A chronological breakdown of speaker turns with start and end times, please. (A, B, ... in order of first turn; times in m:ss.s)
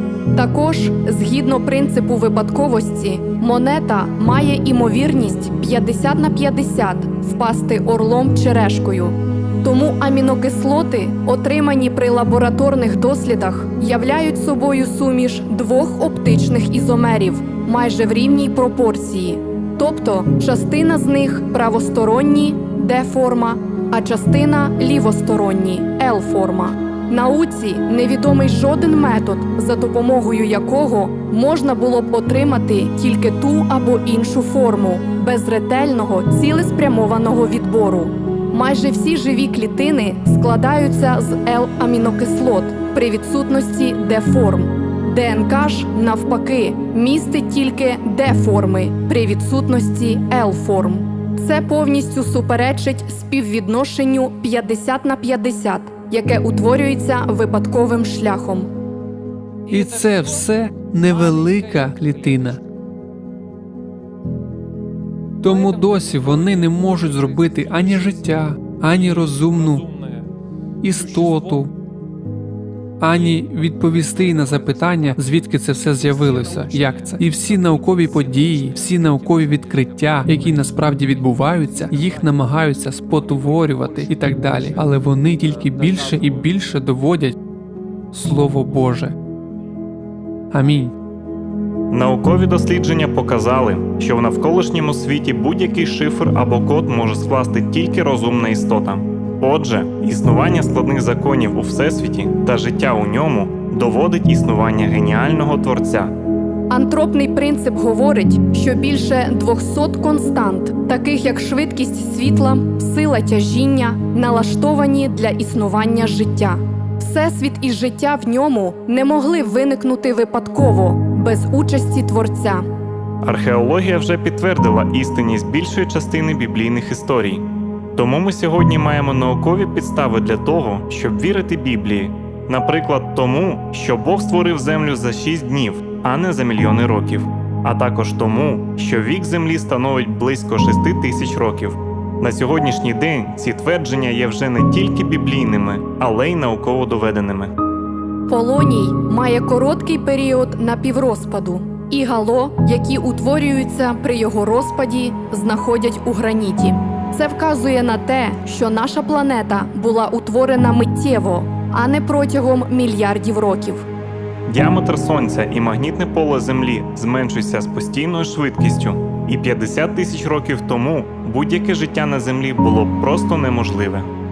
0:00.3-0:58.7 A
0:59.7-1:02.6 B
1:05.4-1:09.9 B
1:10.8-1:11.7 B
1:13.0-1:27.4 B
1:28.1-1:29.1 B
1:30.5-1:30.9 B
1:31.9-1:46.1 C
1:46.7-2:02.6 A
2:03.2-2:27.5 C
2:28.3-2:43.8 A
2:44.5-2:54.1 C